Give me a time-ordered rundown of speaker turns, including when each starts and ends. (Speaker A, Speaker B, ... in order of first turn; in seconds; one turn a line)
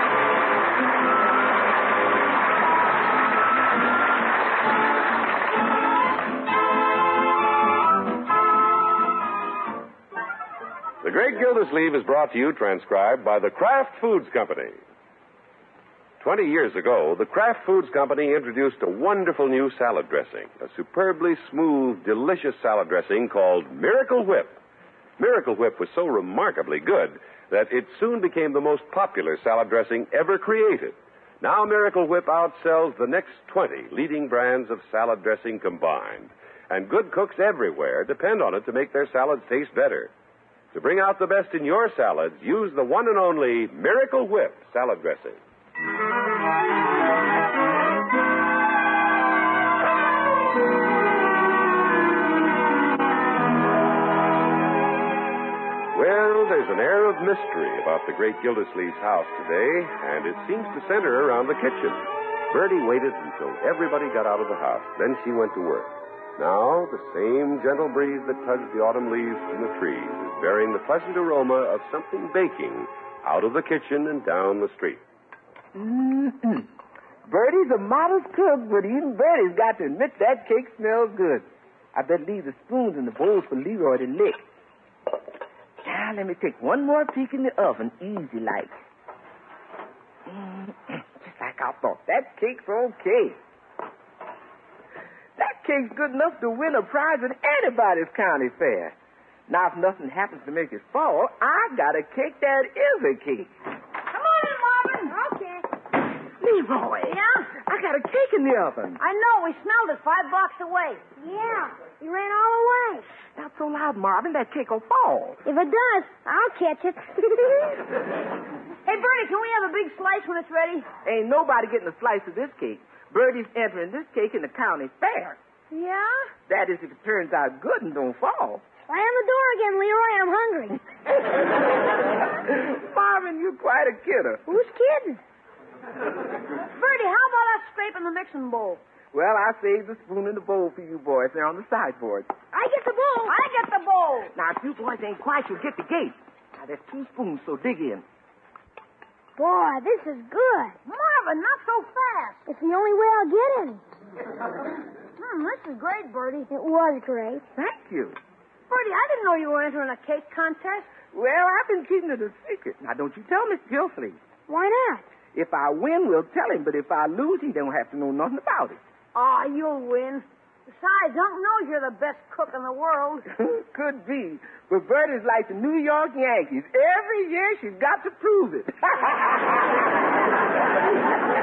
Speaker A: 11.0-14.8
Speaker A: 16.2-24.6
Speaker A: 25.2-40.1
Speaker A: 40.7-45.4
Speaker A: 55.9-75.0
Speaker B: 75.7-76.7
Speaker B: 77.2-84.4
Speaker B: 85.8-88.7
Speaker B: 90.3-93.4
Speaker B: 95.4-98.9
Speaker B: 99.5-103.5
Speaker C: 104.1-105.2
Speaker D: 105.1-105.6
Speaker B: 106.4-109.0
Speaker C: 107.0-107.5
Speaker C: 109.0-111.0
Speaker D: 111.2-113.1
Speaker B: 113.3-115.4
Speaker D: 115.4-117.8
Speaker C: 118.8-120.9
Speaker B: 121.0-125.4
Speaker C: 125.7-126.3
Speaker B: 126.5-128.6
Speaker D: 128.9-130.8
Speaker B: 132.4-134.4
Speaker D: 134.5-135.2
Speaker C: 136.6-138.8
Speaker B: 139.1-142.4
Speaker C: 142.5-144.3
Speaker B: 144.3-148.0
Speaker D: 149.4-150.7
Speaker C: 150.8-152.4
Speaker D: 152.5-153.8
Speaker C: 155.2-156.5
Speaker D: 156.5-157.4
Speaker B: 157.5-158.2
Speaker C: 158.7-160.9
Speaker B: 161.1-164.2
Speaker D: 164.5-165.1
Speaker B: 165.3-168.8
Speaker C: 169.1-173.2
Speaker B: 173.3-179.5